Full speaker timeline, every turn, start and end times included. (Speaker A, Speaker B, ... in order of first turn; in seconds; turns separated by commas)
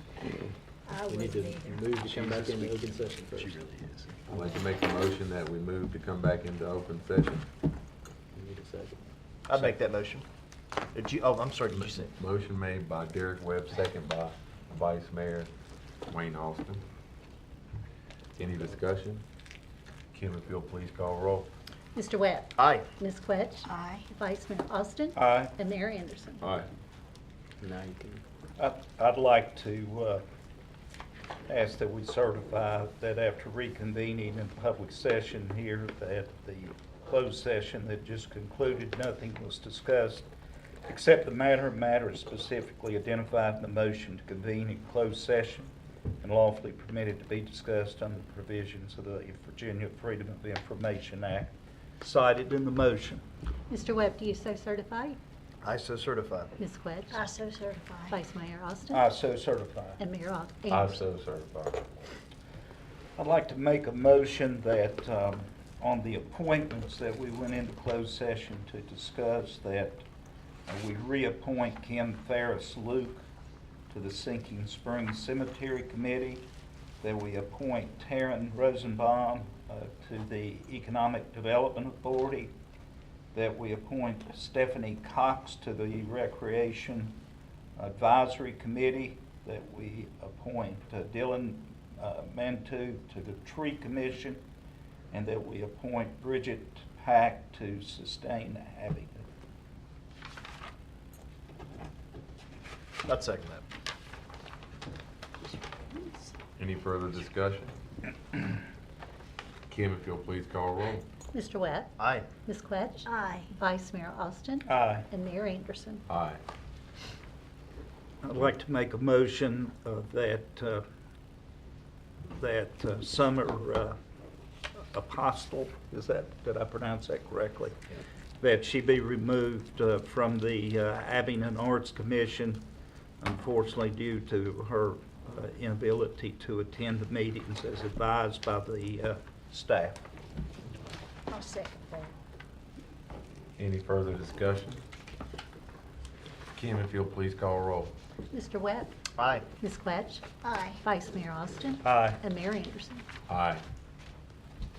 Speaker A: 0.8-1.9, Speaker B: 1.1-3.6, Speaker C: 1.9-4.2, Speaker D: 4.3-7.5, Speaker B: 8.3-9.0, Speaker C: 9.5-10.2, Speaker C: 10.9-12.1, Speaker D: 11.7-15.5, Speaker D: 16.1-16.8, Speaker D: 18.4-19.2, Speaker D: 20.1-21.5, Speaker E: 21.9-26.5, Speaker C: 22.6-22.9, Speaker A: 23.6-24.1, Speaker F: 25.1-25.5, Speaker D: 26.4-26.7, Speaker B: 27.6-28.2, Speaker F: 28.6-30.2, Speaker F: 31.5-40.3, Speaker F: 40.9-53.2, Speaker E: 53.7-55.2, Speaker C: 55.6-56.5, Speaker E: 56.6-57.2, Speaker A: 57.1-58.2, Speaker E: 58.1-59.1, Speaker F: 58.9-60.0, Speaker E: 60.0-61.0, Speaker D: 60.7-61.8, Speaker F: 63.1-70.0, Speaker F: 70.7-73.2, Speaker F: 73.9-76.4, Speaker F: 77.0-82.5, Speaker F: 83.3-87.2, Speaker F: 87.8-94.4, Speaker F: 95.1-99.2, Speaker C: 103.0-103.6, Speaker A: 105.7-106.3, Speaker D: 106.6-107.7, Speaker D: 109.7-111.0, Speaker E: 111.3-116.0, Speaker C: 112.0-112.3, Speaker A: 113.0-113.5, Speaker F: 114.7-115.1, Speaker D: 116.1-116.4, Speaker F: 118.2-120.8, Speaker F: 122.3-124.0, Speaker F: 124.9-127.8, Speaker F: 128.4-132.7, Speaker F: 133.2-140.0, Speaker A: 141.3-142.1, Speaker D: 143.6-144.8, Speaker D: 146.5-147.9, Speaker E: 148.3-148.9, Speaker C: 149.2-149.4, Speaker E: 149.6-150.2, Speaker A: 150.4-150.8, Speaker E: 150.8-153.1, Speaker F: 151.8-152.2, Speaker D: 153.3-153.6